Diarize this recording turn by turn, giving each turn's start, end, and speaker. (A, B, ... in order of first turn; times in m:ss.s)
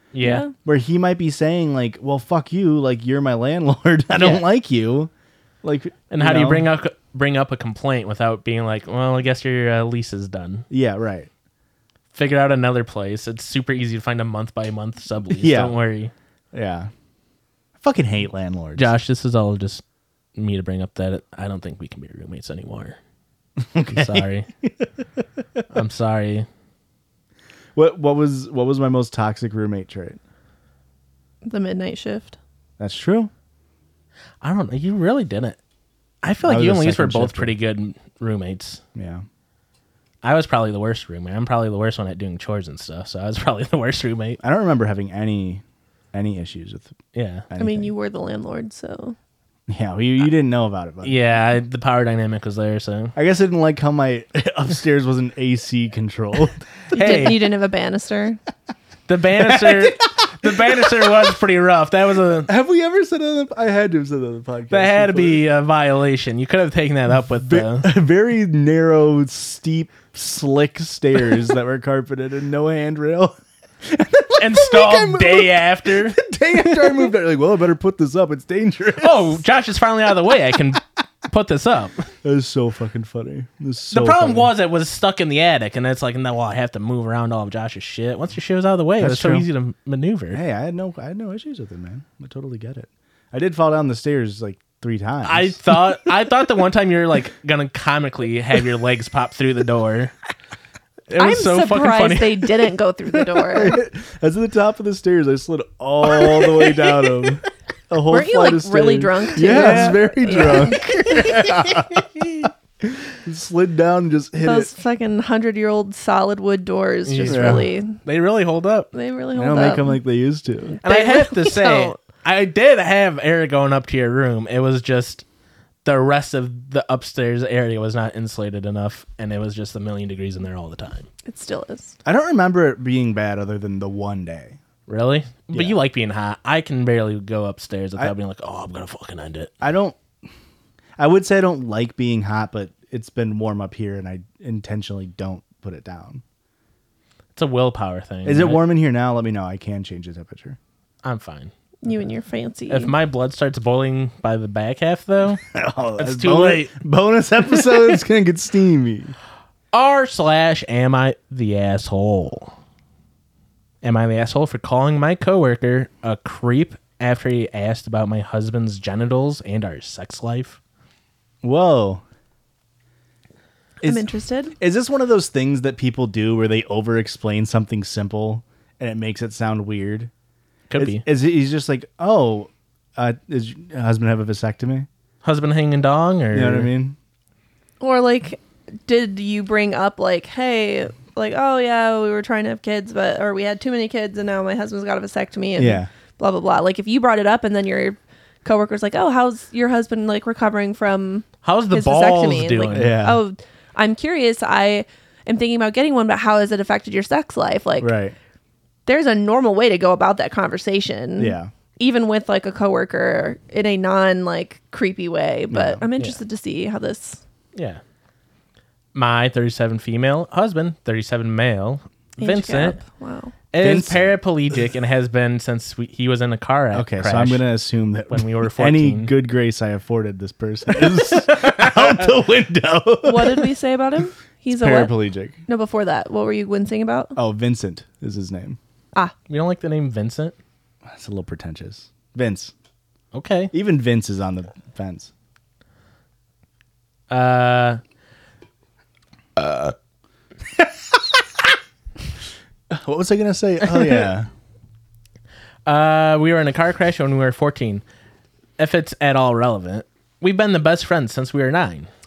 0:00.1-0:00.4 A
0:00.2-0:00.5 B
0:00.6-0:05.1 C
0:04.2-0:04.4 A
0:05.6-0:06.7 C
0:06.1-0:10.6 A
0:10.7-0:11.3 C
0:12.1-0:16.1 A
0:15.3-0:15.7 C
0:16.5-0:16.9 C
0:17.8-0:18.9 C
0:18.8-0:19.8 A
0:20.4-0:23.0 A
0:23.6-0:24.9 C
0:23.9-0:24.5 A
0:25.7-0:26.5 A
0:27.7-0:30.2 C
0:31.4-0:32.4 B
0:32.8-0:33.3 C
0:34.4-0:35.6 A
0:36.2-0:38.8 A
0:36.4-0:37.5 C
0:38.9-0:39.2 C
0:40.2-0:44.4 A
0:44.4-0:46.9 C
0:47.1-0:47.5 A
0:47.5-0:47.9 C
0:47.6-0:49.2 B
0:49.7-0:51.2 C
0:51.0-0:53.1 A
0:53.2-0:57.3 C
0:56.9-0:57.4 A
0:56.9-0:58.4 B
0:59.1-1:02.5 A
0:59.4-1:01.4 C
1:02.4-1:05.4 C
1:04.7-1:07.9 A
1:07.4-1:19.4 C
1:14.4-1:17.1 A
1:19.0-1:22.1 A
1:22.2-1:24.5 C
1:23.9-1:30.4 A
1:29.0-1:29.5 C
1:30.3-1:36.0 C
1:35.2-1:40.1 A
1:41.1-1:42.5 A
1:41.2-1:43.8 B
1:43.4-1:54.7 C
1:48.1-1:51.3 B
1:49.4-1:51.3 A
1:54.4-1:58.0 B
1:57.0-1:58.9 A
1:57.2-1:57.6 C
1:58.9-2:00.0 B
1:59.3-2:00.8 C
2:00.8-2:02.0 B
2:00.8-2:05.2 A
2:05.8-2:11.1 A
2:11.2-2:12.0 B
2:12.0-2:14.6 C
2:14.9-2:19.5 A
2:15.5-2:15.8 C
2:19.6-2:20.0 C
2:21.0-2:26.2 C
2:27.4-2:28.6 A
2:28.2-2:30.6 C
2:31.0-2:31.5 A
2:31.8-2:32.9 B
2:32.7-2:35.4 A
2:35.5-2:39.1 C
2:36.0-2:36.7 A
2:39.7-2:42.5 A
2:43.8-2:50.6 A
2:51.4-2:52.0 C
2:53.8-3:00.1 C
2:53.8-2:54.5 B
3:00.7-3:01.0 A
3:00.8-3:04.9 C
3:05.2-3:06.7 A
3:06.3-3:07.0 C
3:07.8-3:28.0 B
3:15.6-3:15.9 C
3:21.4-3:22.9 A
3:22.7-3:23.2 C
3:27.8-3:28.2 C
3:28.8-3:37.2 B
3:31.2-3:31.5 C
3:35.5-3:35.8 C
3:37.5-3:37.8 A
3:38.9-3:42.8 A
3:42.2-3:43.3 B
3:43.5-3:47.4 A
3:43.6-3:44.1 C
3:46.7-3:53.5 C
3:48.1-3:49.1 A
3:50.7-3:52.0 A
3:53.0-3:54.9 B
3:54.5-3:55.4 C
3:55.5-3:57.1 B
3:57.2-3:58.6 C
3:59.3-4:00.4 A
4:00.8-4:02.5 C
4:03.1-4:03.5 A
4:03.5-4:05.1 C
4:07.1-4:07.8 A
4:09.4-4:09.7 A
4:10.9-4:11.2 C
4:12.7-4:14.3 C
4:13.7-4:14.0 A
4:15.6-4:17.8 A
4:18.6-4:21.9 A